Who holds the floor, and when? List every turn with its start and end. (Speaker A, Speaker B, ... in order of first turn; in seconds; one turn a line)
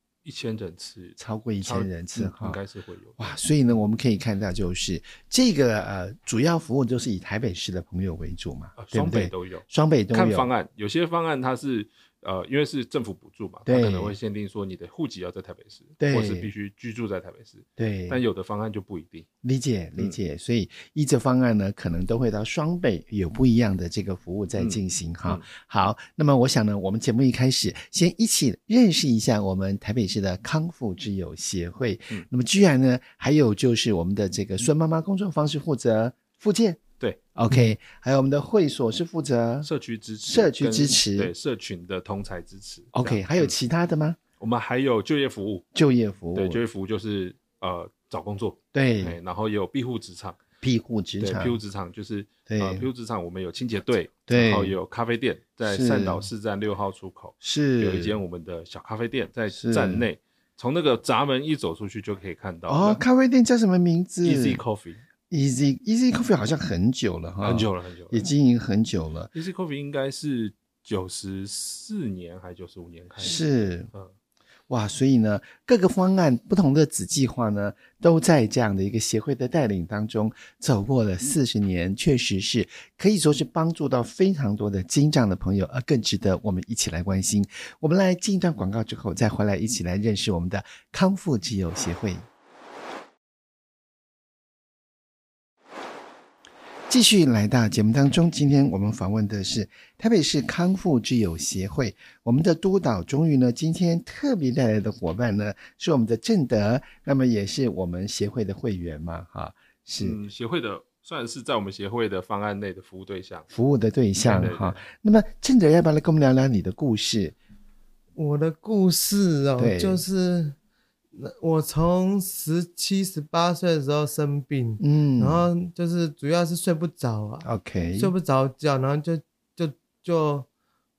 Speaker A: 0.2-3.3
Speaker B: 1.2-2.6
Speaker B: 3.2-10.5
Speaker A: 8.8-19.3
Speaker B: 13.7-14.2
Speaker B: 16.0-16.5
Speaker B: 17.8-18.2
Speaker B: 19.4-36.8
Speaker A: 24.6-25.4
Speaker B: 37.4-39.7
Speaker A: 39.6-43.5
Speaker B: 40.3-41.3
Speaker B: 42.9-44.2
Speaker A: 44.4-45.6
Speaker B: 45.8-46.6
Speaker A: 46.4-50.4
Speaker B: 48.7-49.2
Speaker B: 50.6-51.6
Speaker A: 51.2-63.0
Speaker B: 52.5-52.9
Speaker B: 54.3-54.8
Speaker B: 55.6-56.3
Speaker B: 57.4-58.2
Speaker B: 59.6-60.1
Speaker B: 62.7-64.6
Speaker A: 64.2-65.0
Speaker B: 65.3-69.3
Speaker A: 67.4-68.3
Speaker A: 69.3-73.4
Speaker B: 73.2-73.9
Speaker B: 74.7-92.3
Speaker B: 96.9-110.2
Speaker A: 110.0-113.5
Speaker B: 113.5-117.3
Speaker A: 114.2-114.8
Speaker C: 118.2-120.6
Speaker B: 119.6-120.0
Speaker C: 121.2-130.5
Speaker B: 124.8-125.5
Speaker B: 127.4-128.1